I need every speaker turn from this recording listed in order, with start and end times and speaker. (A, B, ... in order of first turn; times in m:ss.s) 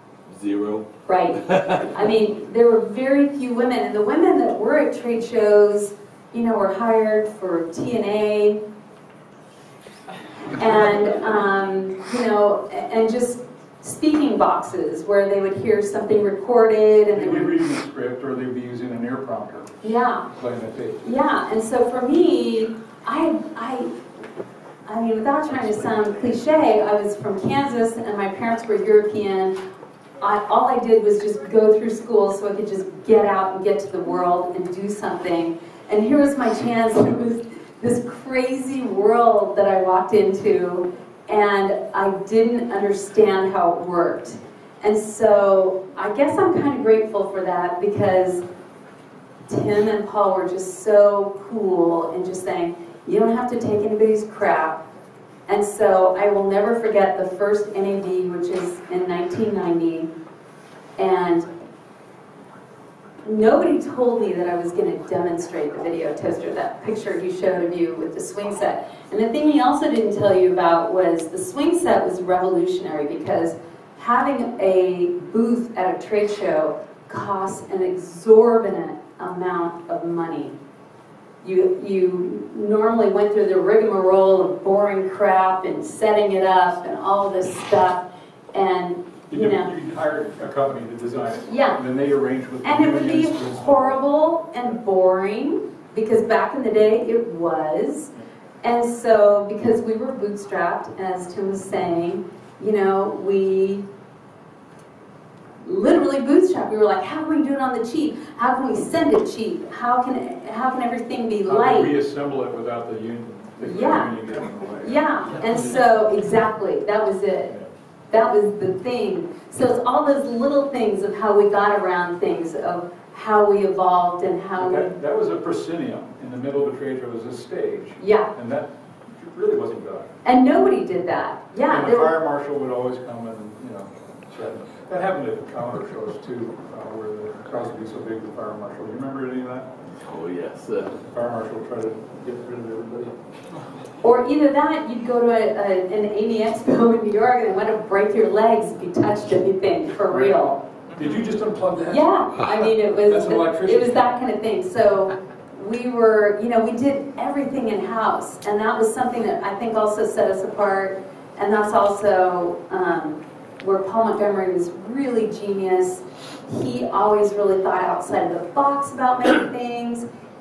0:00.3-0:01.8 A
0:01.0-0:08.6 B
0:10.5-0:17.6 B
0:17.1-0:19.7 C
0:19.8-0:20.3 B
0:20.3-0:21.0 C
0:21.0-0:23.9 B
0:24.8-0:29.6 B
0:30.2-0:48.4 B
0:49.5-0:54.8 B
0:55.5-1:00.1 B
1:01.0-1:01.5 B
1:03.2-1:20.5 B
1:21.4-1:29.7 B
1:29.3-1:34.0 C
1:31.5-1:31.8 B
1:32.6-1:43.8 B
1:45.6-1:51.9 B
1:51.5-1:55.0 C
1:53.6-1:54.1 B
1:54.8-1:57.6 B
1:58.1-2:04.9 B
2:04.6-2:10.1 C
2:08.0-2:08.3 B
2:10.2-2:12.1 B
2:11.7-2:19.7 C
2:20.0-2:21.0 A
2:21.0-2:23.1 C
2:24.0-2:30.6 B
2:30.1-2:30.4 C
2:30.9-2:32.1 C
2:31.9-2:50.0 B
2:33.0-2:34.1 C